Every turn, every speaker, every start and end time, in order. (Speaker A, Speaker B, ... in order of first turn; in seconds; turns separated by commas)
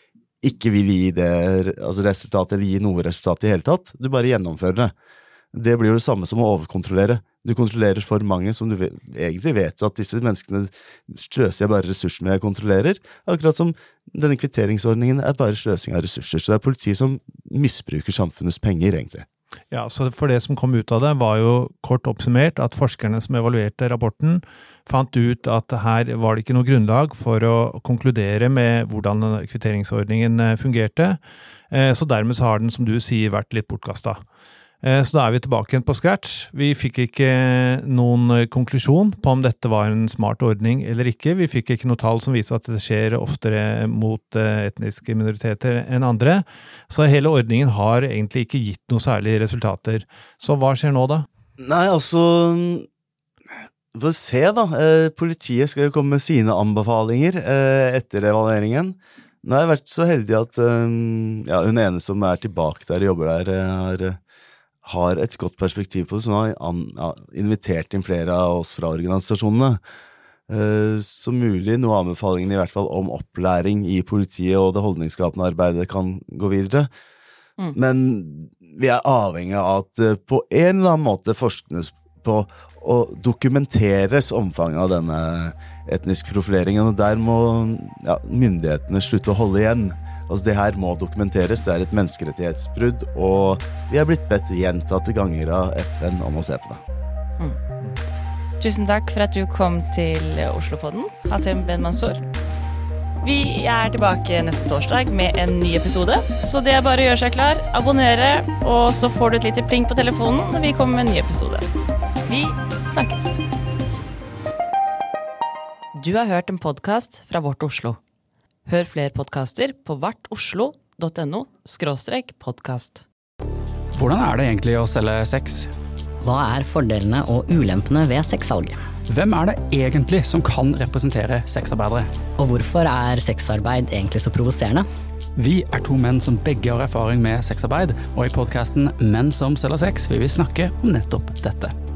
Speaker A: 0.4-4.9, Speaker A: 5.5-19.3, Speaker B: 19.7-31.2, Speaker B: 31.7-34.2, Speaker B: 34.8-51.3, Speaker A: 51.6-52.9, Speaker A: 53.9-64.2, Speaker A: 64.8-69.8, Speaker A: 70.5-76.9, Speaker A: 77.7-96.8, Speaker C: 98.6-102.2, Speaker C: 103.2-111.7, Speaker C: 112.3-113.4, Speaker C: 116.0-118.0, Speaker C: 118.7-123.0, Speaker D: 124.0-125.7, Speaker E: 126.2-128.8, Speaker D: 129.1-132.1, Speaker E: 132.4-134.9, Speaker D: 135.4-141.7